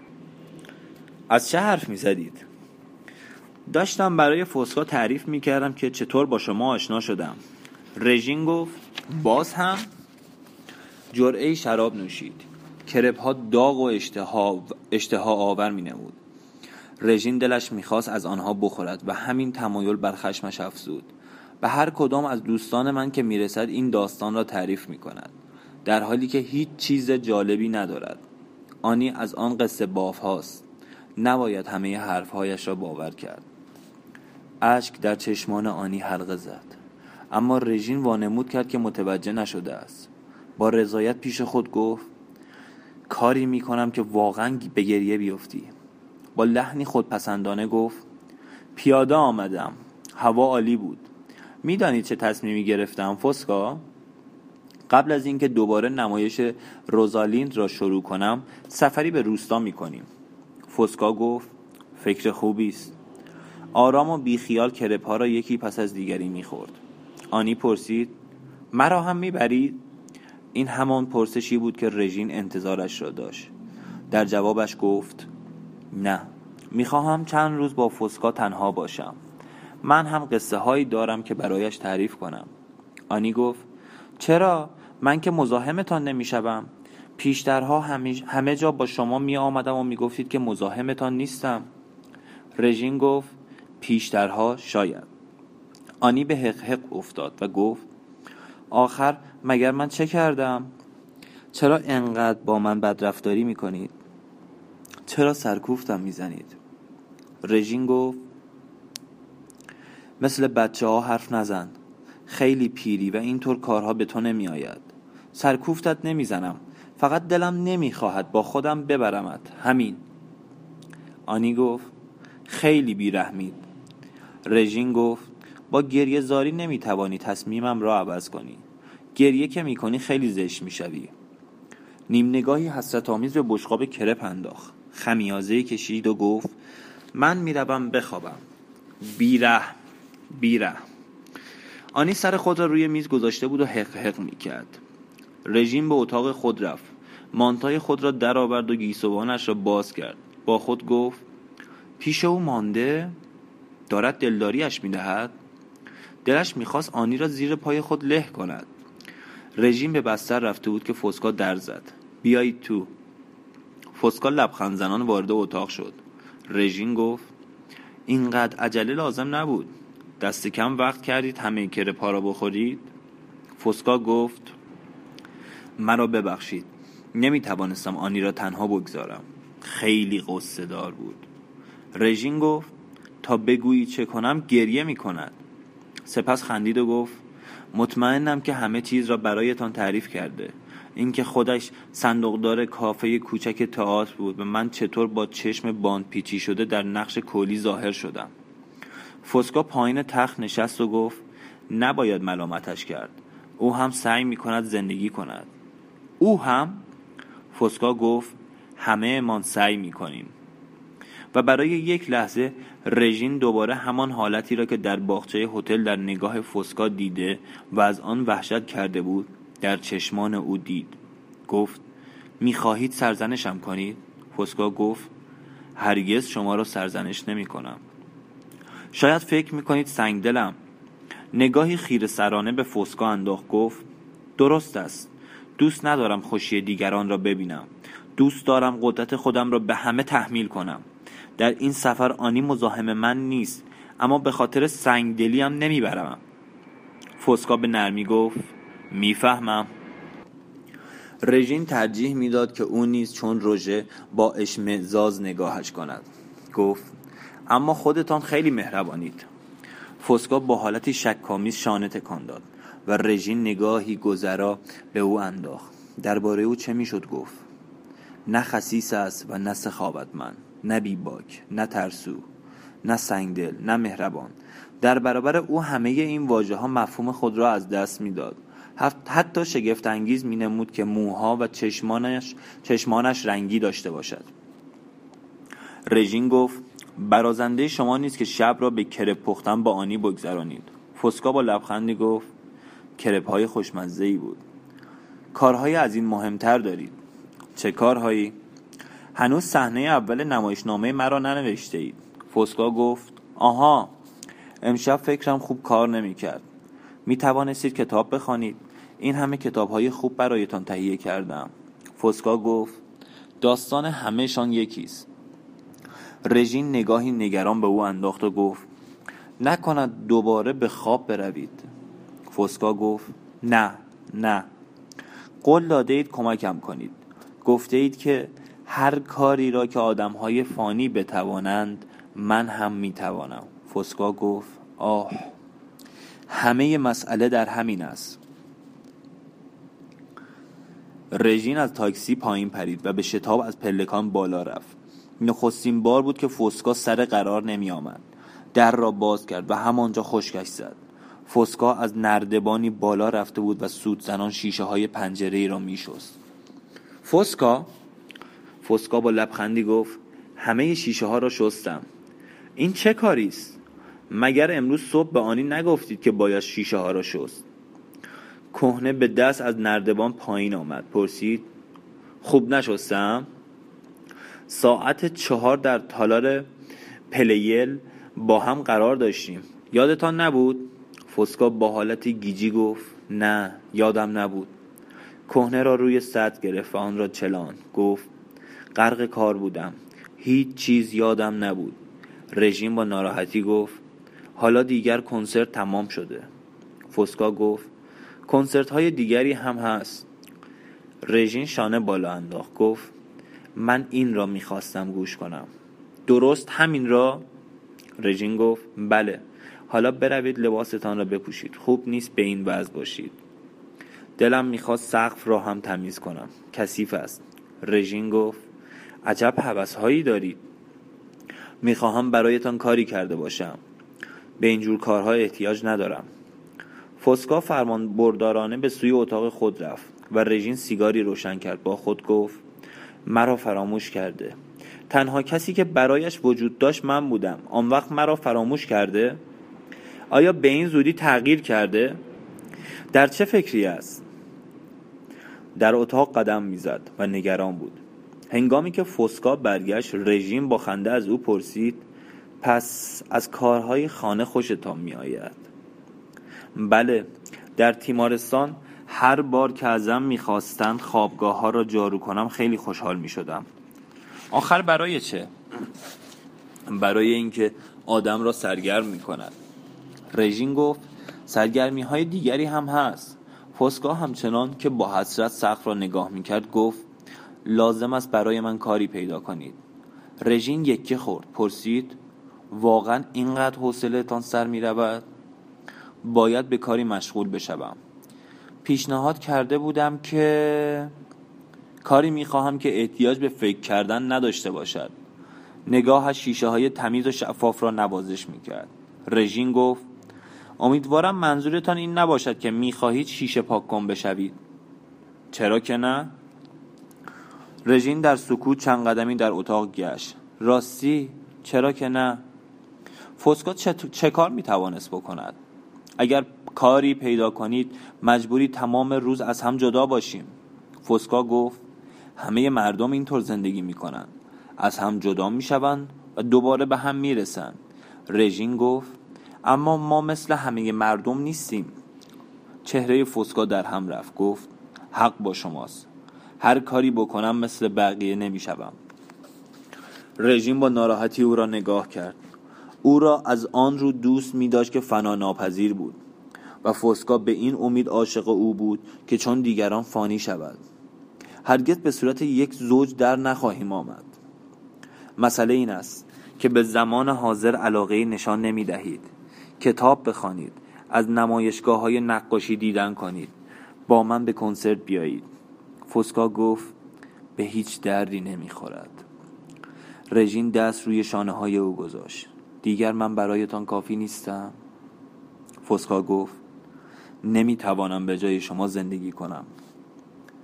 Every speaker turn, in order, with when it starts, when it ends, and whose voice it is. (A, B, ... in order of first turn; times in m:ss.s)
0:01.3-0:02.4 A
0:03.7-0:07.4 A
0:08.0-0:09.9 A
0:11.1-0:16.2 A
0:17.0-0:25.3 A
0:25.8-0:28.2 A
0:28.8-0:30.6 A
0:31.2-0:33.4 A
0:34.6-0:36.8 A
0:37.3-0:42.1 A
0:43.1-0:45.7 A
0:46.3-0:48.0 A
0:48.7-0:51.1 A
0:51.6-0:53.8 A
0:54.9-1:00.1 A
1:00.7-1:03.0 A
1:03.7-1:06.8 A
1:07.3-1:08.1 A
1:08.7-1:09.8 A
1:10.5-1:13.5 A
1:14.1-1:15.3 A
1:15.9-1:19.2 A
1:19.8-1:22.5 A
1:23.1-1:23.7 A
1:24.2-1:31.7 A
1:32.6-1:35.1 A
1:36.0-1:37.8 A
1:38.7-1:40.7 A
1:41.5-1:43.9 A
1:45.0-1:46.6 A
1:47.4-1:48.2 A
1:50.2-1:51.8 A
1:52.3-2:00.0 A
2:01.3-2:01.9 A
2:02.5-2:03.6 A
2:04.4-2:08.6 A
2:09.1-2:11.1 A
2:12.1-2:16.5 A
2:17.1-2:18.4 A
2:19.0-2:19.8 A
2:20.3-2:20.8 A
2:21.9-2:24.8 A
2:25.4-2:31.2 A
2:32.0-2:33.1 A
2:33.9-2:35.3 A
2:36.2-2:38.7 A
2:39.6-2:42.9 A
2:43.9-2:47.3 A
2:48.1-2:52.9 A
2:53.6-2:54.6 A
2:55.8-3:01.3 A
3:01.9-3:05.4 A
3:06.0-3:07.2 A
3:07.7-3:18.3 A
3:19.2-3:25.5 A
3:26.2-3:26.8 A
3:27.5-3:30.3 A
3:31.3-3:41.8 A
3:42.4-3:45.1 A
3:45.8-3:47.8 A
3:48.9-3:50.6 A
3:51.3-3:53.8 A
3:54.4-4:00.8 A
4:01.4-4:06.2 A
4:07.2-4:09.7 A
4:11.2-4:16.9 A
4:17.5-4:19.3 A
4:20.0-4:27.4 A
4:28.3-4:32.2 A
4:32.8-4:44.3 A
4:45.9-4:52.3 A
4:53.0-4:54.4 A
4:55.3-4:57.0 A
4:57.6-4:58.3 A
4:59.1-5:03.9 A
5:04.6-5:06.4 A
5:07.0-5:12.8 A
5:13.4-5:15.1 A
5:16.2-5:18.7 A
5:19.4-5:21.7 A
5:22.3-5:24.5 A
5:25.4-5:35.3 A
5:36.3-5:38.2 A
5:41.1-5:56.2 A
5:57.0-5:57.7 A
5:58.6-6:01.8 A
6:02.6-6:03.6 A
6:04.1-6:07.4 A
6:08.5-6:11.5 A
6:12.2-6:13.3 A
6:14.5-6:16.5 A
6:17.1-6:24.5 A
6:25.3-6:28.1 A
6:28.7-6:31.8 A
6:32.3-6:33.8 A
6:34.4-6:36.3 A
6:36.9-6:37.7 A
6:38.3-6:40.1 A
6:41.0-6:42.9 A
6:43.6-6:45.5 A
6:46.1-6:47.2 A
6:48.0-6:53.2 A
6:54.2-6:58.4 A
6:59.0-7:00.4 A
7:01.6-7:03.6 A
7:04.4-7:06.1 A
7:07.0-7:12.4 A
7:13.0-7:14.4 A
7:14.9-7:19.2 A
7:20.1-7:22.0 A
7:22.9-7:24.0 A
7:25.6-7:31.8 A
7:32.4-7:35.4 A
7:36.6-7:43.5 A
7:44.3-7:45.3 A
7:46.7-7:49.3 A
7:50.1-7:56.8 A
7:57.4-7:59.6 A
8:00.2-8:02.0 A
8:02.5-8:05.0 A
8:06.0-8:07.8 A
8:08.6-8:10.9 A
8:11.8-8:14.9 A
8:15.7-8:19.8 A
8:20.6-8:24.4 A
8:25.3-8:26.1 A
8:27.6-8:32.2 A
8:33.2-8:35.4 A
8:36.0-8:40.3 A
8:40.8-8:41.6 A
8:42.2-8:47.6 A
8:48.1-8:51.8 A
8:52.6-8:55.9 A
8:56.4-8:58.8 A
9:00.2-9:02.2 A
9:02.8-9:06.0 A
9:06.6-9:10.6 A
9:11.4-9:14.1 A
9:15.2-9:23.3 A
9:23.9-9:25.3 A
9:25.8-9:26.7 A
9:27.4-9:29.0 A
9:30.1-9:34.5 A
9:35.6-9:36.4 A
9:37.2-9:39.5 A